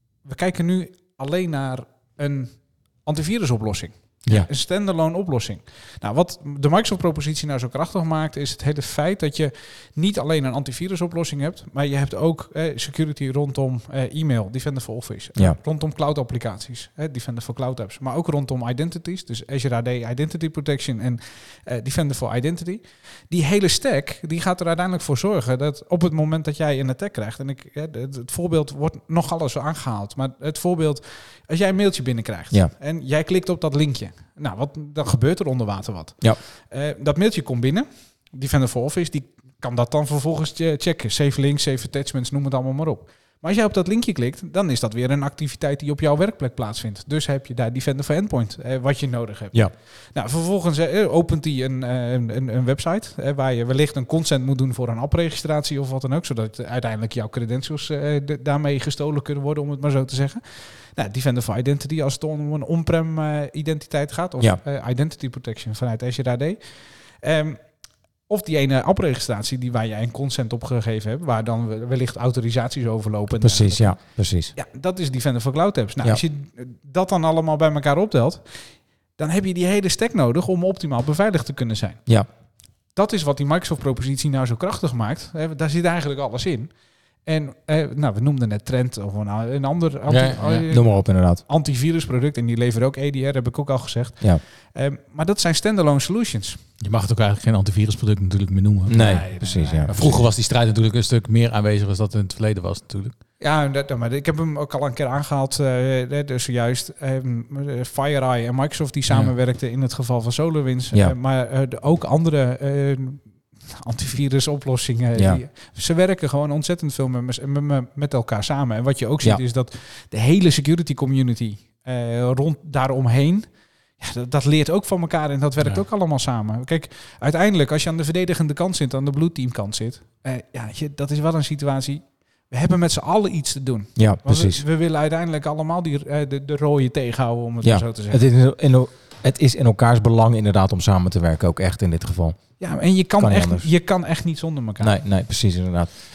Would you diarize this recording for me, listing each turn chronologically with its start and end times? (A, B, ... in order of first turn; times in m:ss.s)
0:00.2-1:07.6 A
1:08.3-1:14.0 A
1:13.4-1:14.5 B
1:14.5-1:22.0 A
1:22.9-1:26.7 A
1:27.2-1:36.6 A
1:30.1-1:30.6 C
1:30.7-1:31.4 B
1:36.8-1:39.1 C
1:38.9-1:39.9 B
1:38.9-1:40.2 A
1:39.9-1:43.1 C
1:43.4-2:03.4 A
1:55.2-1:55.4 B
2:04.0-2:18.2 A
2:14.0-2:14.6 B
2:17.6-2:22.4 B
2:22.6-2:25.0 A
2:23.2-2:23.7 B
2:24.8-2:25.9 B